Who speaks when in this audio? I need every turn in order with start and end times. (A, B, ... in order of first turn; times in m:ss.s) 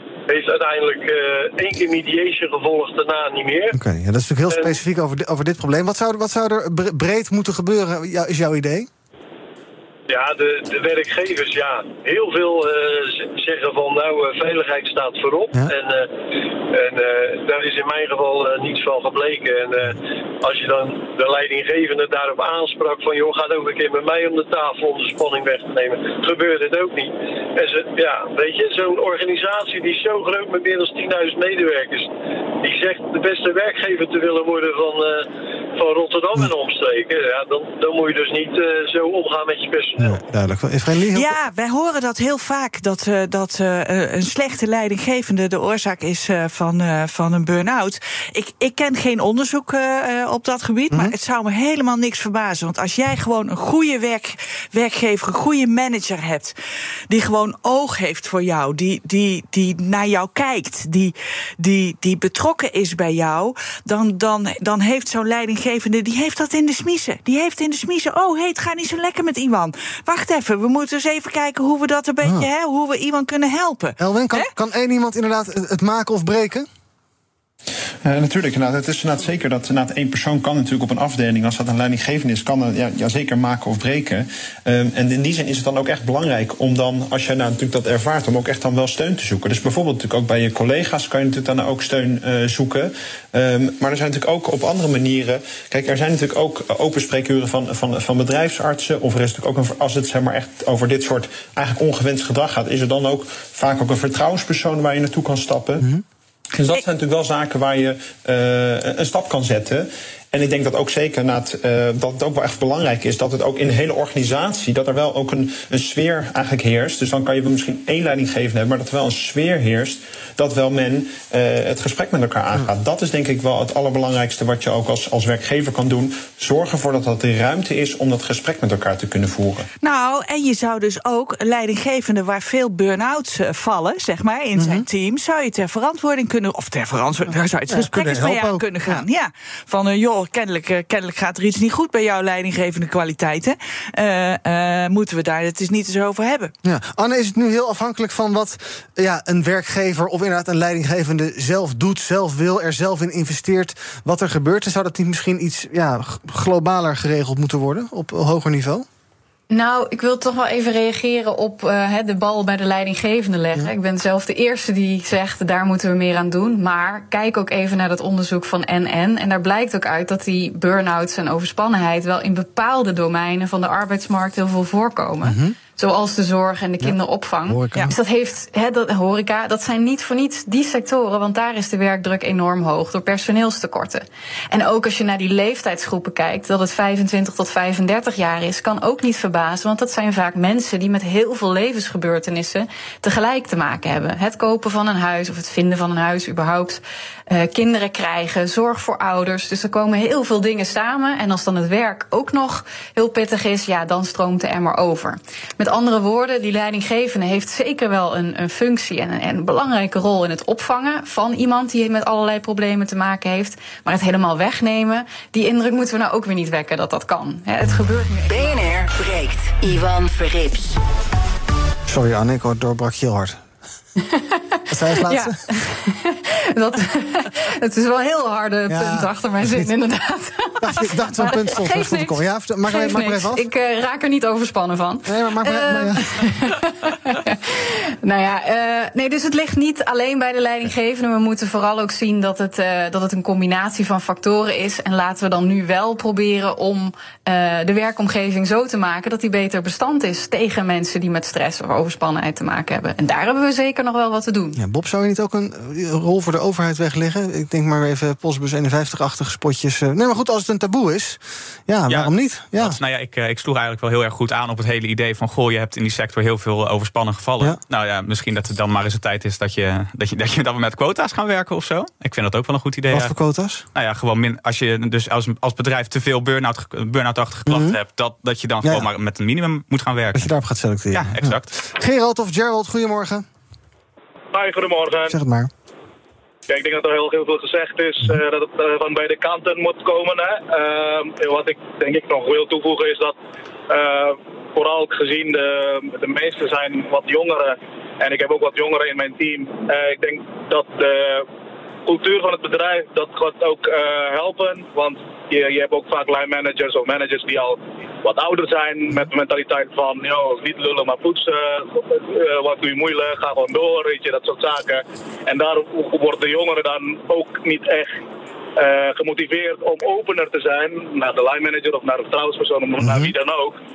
0:00.3-0:03.8 A
0:03.8-0:08.9 B
0:04.5-0:04.8 A
0:10.1-0:32.1 A
0:32.6-0:40.2 A
0:40.0-0:41.4 B
0:41.1-0:56.6 C
0:57.1-1:14.5 C
1:14.0-1:16.7 B
1:18.0-1:45.9 D
1:46.5-2:09.7 D
2:09.8-2:26.5 C
2:14.6-2:14.9 B
2:17.7-2:19.0 B
2:26.6-2:38.9 B
2:39.5-3:38.3 E
2:55.2-2:55.6 B
2:57.5-2:57.9 B
3:38.3-3:40.8 F
3:41.9-3:43.4 B
3:44.0-4:14.6 E
3:44.7-3:45.4 B
3:48.7-3:49.7 B
3:50.6-3:53.4 B
3:55.1-3:56.2 B
4:14.6-4:22.8 B
4:21.9-4:33.1 G
4:32.9-4:33.6 B
4:33.8-4:40.3 G
4:37.5-4:37.8 B
4:40.2-4:43.3 B
4:40.9-4:41.5 G
4:44.3-4:45.2 H
4:45.0-4:45.5 B
4:46.5-4:53.2 H
4:53.7-5:01.3 H
5:01.9-5:18.0 H
5:18.6-5:23.6 H
5:22.8-5:23.1 B